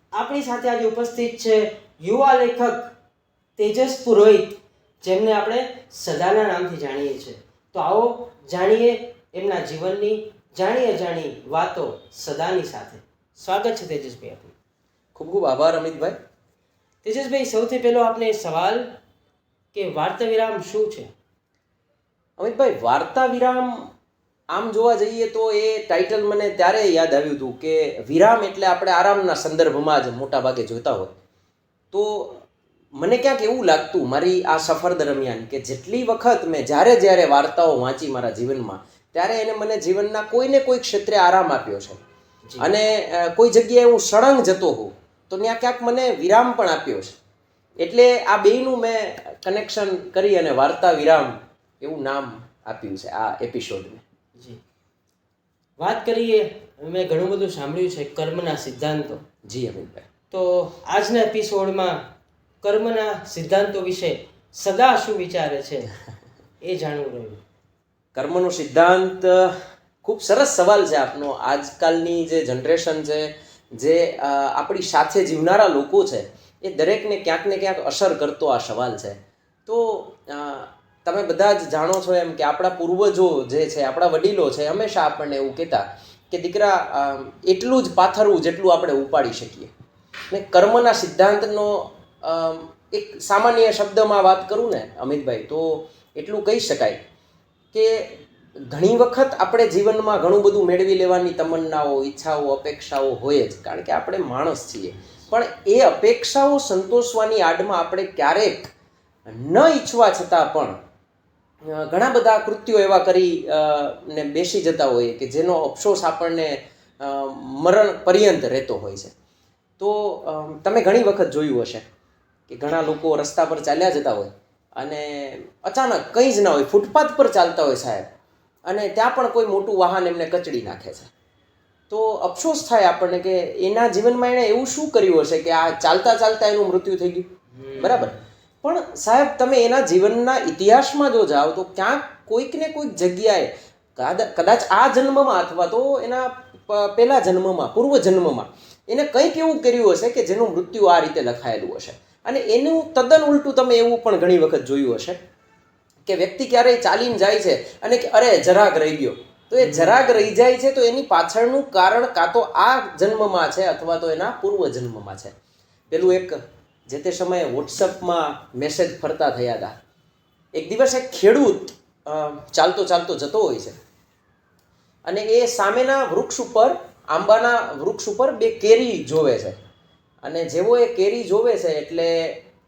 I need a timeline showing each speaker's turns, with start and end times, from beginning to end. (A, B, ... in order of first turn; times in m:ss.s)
0:00.1-0:02.9 A
0:03.6-0:14.5 A
0:15.2-0:16.2 B
0:17.0-0:18.8 A
0:19.7-0:21.1 A
0:22.4-0:23.9 B
0:24.5-0:31.1 B
0:31.9-0:32.4 B
0:33.0-0:42.0 B
0:42.6-0:47.2 B
0:47.8-0:54.0 B
0:55.8-0:59.2 A
0:59.4-1:00.1 B
1:00.3-1:02.0 A
1:02.6-1:05.9 A
1:06.6-1:07.4 A
1:08.1-1:29.7 B
1:30.3-1:37.0 B
1:37.7-1:48.7 B
1:49.3-1:50.8 B
1:51.7-1:59.1 B
1:59.8-2:01.9 B
2:02.5-2:08.1 B
2:08.7-2:11.1 B
2:11.9-2:17.3 B
2:17.5-2:18.1 A
2:17.8-2:35.2 B
2:36.0-2:45.3 B
2:39.6-2:40.2 A
2:45.9-2:49.7 B
2:50.5-2:53.8 B
2:55.1-2:59.6 B
3:00.2-3:02.4 B